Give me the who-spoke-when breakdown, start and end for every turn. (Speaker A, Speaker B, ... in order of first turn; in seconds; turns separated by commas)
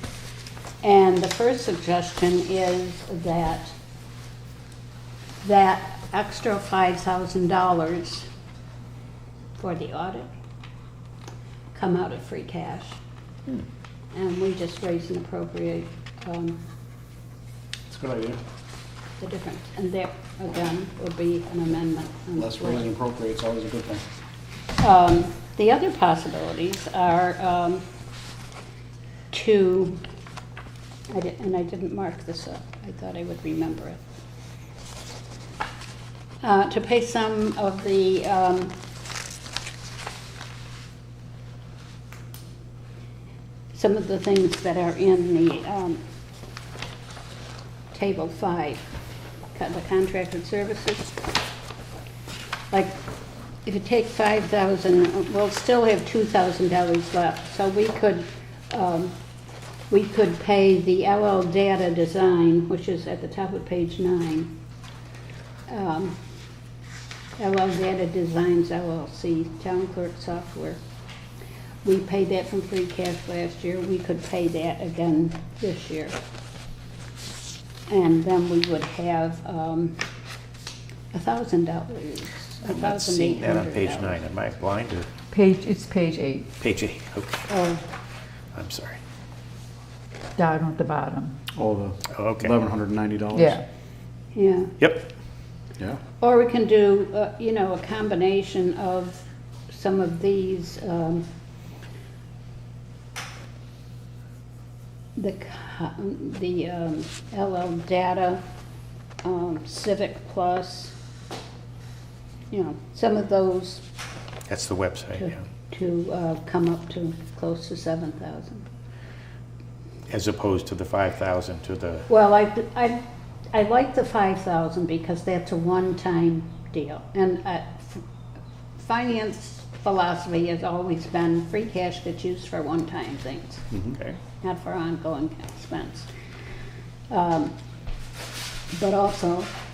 Speaker A: 0.8-3.7, Speaker A: 5.4-8.3, Speaker A: 9.6-10.3, Speaker A: 11.7-13.0, Speaker A: 14.1-16.6, Speaker B: 17.9-18.4, Speaker A: 19.2-22.9, Speaker B: 22.4-24.0, Speaker A: 24.8-27.8, Speaker A: 29.3-30.0, Speaker A: 31.1-34.0, Speaker A: 36.4-38.7, Speaker A: 43.7-46.0, Speaker A: 47.9-48.9, Speaker A: 49.5-51.2, Speaker A: 52.7-53.0, Speaker A: 53.6-59.1, Speaker A: 59.9-64.5, Speaker A: 65.7-66.2, Speaker A: 67.4-70.8, Speaker A: 71.8-76.2, Speaker A: 77.9-80.0, Speaker A: 81.1-84.2, Speaker C: 82.6-85.1, Speaker D: 85.3-86.5, Speaker C: 86.6-87.5, Speaker A: 87.5-87.8, Speaker C: 88.5-89.0, Speaker D: 90.4-91.4, Speaker B: 91.5-93.6, Speaker C: 92.1-92.5, Speaker D: 93.3-93.6, Speaker A: 94.3-94.8, Speaker A: 96.2-101.3, Speaker A: 105.2-108.4, Speaker A: 109.2-110.9, Speaker A: 112.5-113.8, Speaker C: 114.5-115.3, Speaker A: 115.2-118.7, Speaker C: 120.1-122.1, Speaker A: 122.1-123.0, Speaker A: 123.5-128.0, Speaker A: 128.8-133.6, Speaker A: 134.4-136.1, Speaker A: 137.1-137.5, Speaker A: 138.7-139.5